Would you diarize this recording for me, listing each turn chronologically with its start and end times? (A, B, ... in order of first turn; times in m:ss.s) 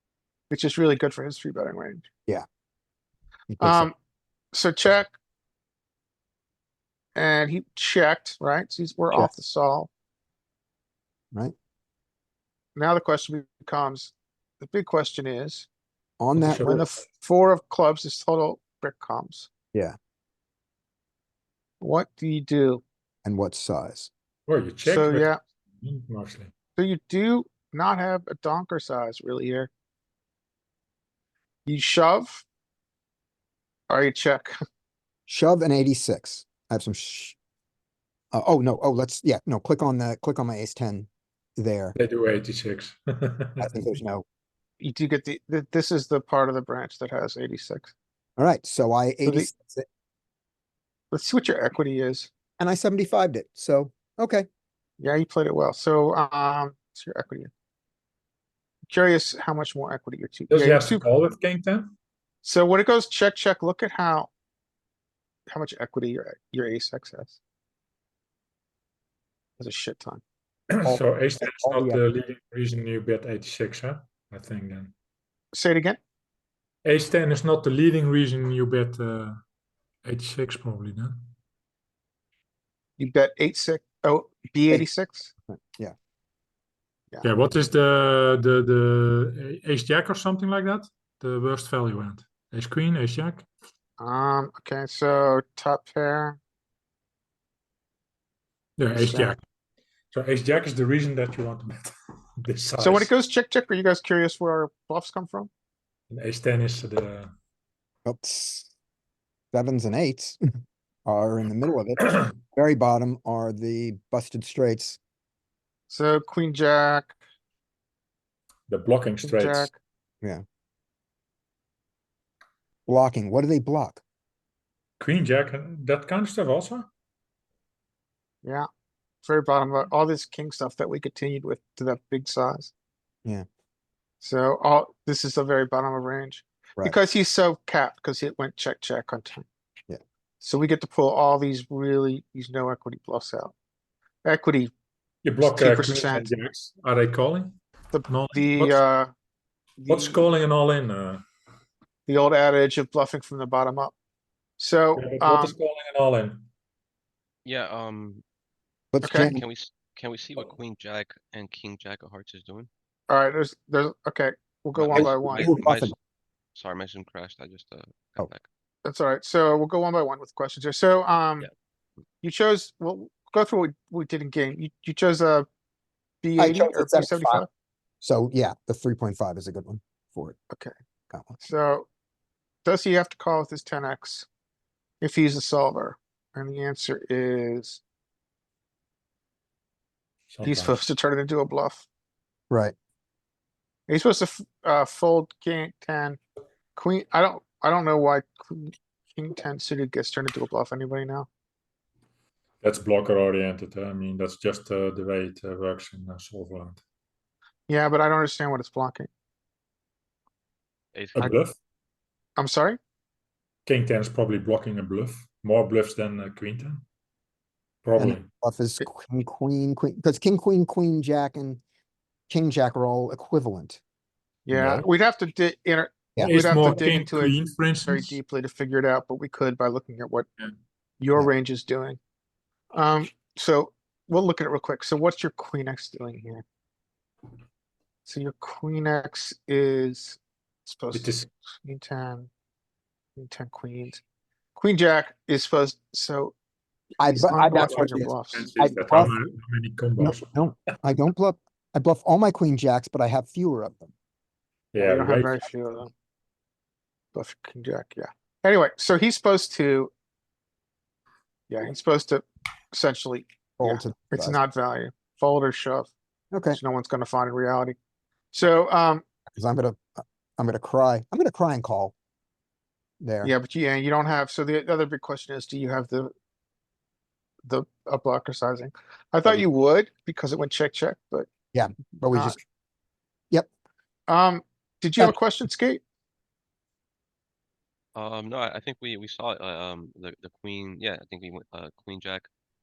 0:00.5-0:02.1 A
0:03.5-0:03.9 B
0:03.6-0:03.9 A
0:04.5-0:05.1 A
0:07.1-0:09.9 A
0:12.8-0:15.7 A
0:16.2-0:16.8 B
0:16.4-0:16.9 C
0:16.6-0:19.5 A
0:21.8-0:22.8 A
0:23.2-0:24.1 B
0:24.5-0:26.5 C
0:24.8-0:25.4 A
0:26.8-0:29.7 A
0:31.6-0:32.4 A
0:33.9-0:34.5 A
0:35.3-0:37.4 B
0:38.3-0:42.0 B
0:42.0-0:43.7 C
0:43.6-0:44.2 B
0:44.8-0:47.9 A
0:48.4-0:49.8 B
0:51.1-0:52.3 A
0:52.6-0:54.5 B
0:55.0-0:57.5 A
0:58.9-1:01.0 A
1:00.5-1:01.9 C
1:02.4-1:04.3 A
1:05.5-1:07.4 A
1:09.6-1:10.2 A
1:10.7-1:14.9 C
1:10.8-1:12.0 B
1:15.5-1:16.0 A
1:16.8-1:19.4 C
1:20.0-1:21.3 C
1:23.0-1:25.3 A
1:25.5-1:25.9 B
1:27.2-1:33.5 C
1:34.0-1:36.4 A
1:38.8-1:39.4 C
1:39.0-1:39.3 B
1:40.1-1:43.1 C
1:42.8-1:45.5 A
1:46.1-1:47.3 C
1:48.0-1:48.7 B
1:49.5-1:50.4 B
1:51.0-1:55.0 B
1:55.9-1:57.2 A
1:58.7-1:59.7 C
1:59.2-1:59.8 A
2:02.9-2:04.0 B
2:05.0-2:06.9 C
2:09.2-2:12.7 A
2:14.2-2:19.4 A
2:20.4-2:23.5 A
2:24.2-2:24.7 A
2:25.2-2:27.6 C
2:25.4-2:26.3 A
2:27.9-2:29.1 A
2:28.1-2:28.8 C
2:29.8-2:30.2 A
2:29.8-2:31.2 C
2:32.1-2:33.9 A
2:34.6-2:35.6 A
2:35.0-2:36.5 C
2:37.4-2:38.2 D
2:38.9-2:39.4 B
2:39.0-2:39.3 A
2:39.1-2:42.7 D
2:43.1-2:45.5 A
2:44.7-2:46.0 D
2:44.9-2:46.0 B
2:46.5-2:48.4 D
2:48.8-2:51.5 A
2:52.2-2:55.5 A
2:56.2-2:57.5 A
2:56.4-2:57.4 B
2:58.0-3:00.4 B
3:01.1-3:01.4 B
3:01.4-3:01.9 A
3:02.6-3:04.3 A
3:05.0-3:07.8 A
3:10.3-3:10.8 C
3:10.4-3:11.9 A
3:12.5-3:12.7 B
3:13.9-3:16.2 A
3:16.8-3:21.3 A
3:22.6-3:26.8 C
3:27.7-3:29.1 A
3:30.9-3:31.3 D
3:31.1-3:31.5 C
3:32.4-3:32.8 A
3:33.6-3:36.8 C
3:37.8-3:38.3 C
3:38.0-3:41.6 B
3:42.3-3:43.8 B
3:44.4-3:50.4 A
3:44.5-3:44.8 C
3:46.2-3:46.8 B
3:46.2-3:48.2 C
3:51.0-3:52.0 A
3:52.7-3:56.4 A
3:58.0-4:01.1 A
4:00.9-4:01.3 C
4:01.6-4:02.3 A
4:03.2-4:04.0 A
4:04.5-4:06.3 A
4:07.0-4:09.1 B
4:07.0-4:08.5 A
4:07.4-4:10.3 C
4:10.0-4:13.9 B
4:14.7-4:15.4 C
4:14.8-4:15.9 A
4:17.1-4:19.9 A
4:21.5-4:25.9 A
4:23.6-4:24.4 B
4:26.3-4:26.6 B
4:26.5-4:27.8 A
4:28.3-4:29.0 A
4:29.4-4:31.9 B
4:33.0-4:33.3 B
4:33.2-4:36.1 A
4:37.4-4:41.3 A
4:41.5-4:42.4 B
4:42.1-4:42.4 A
4:44.1-4:45.8 A
4:47.9-4:52.3 D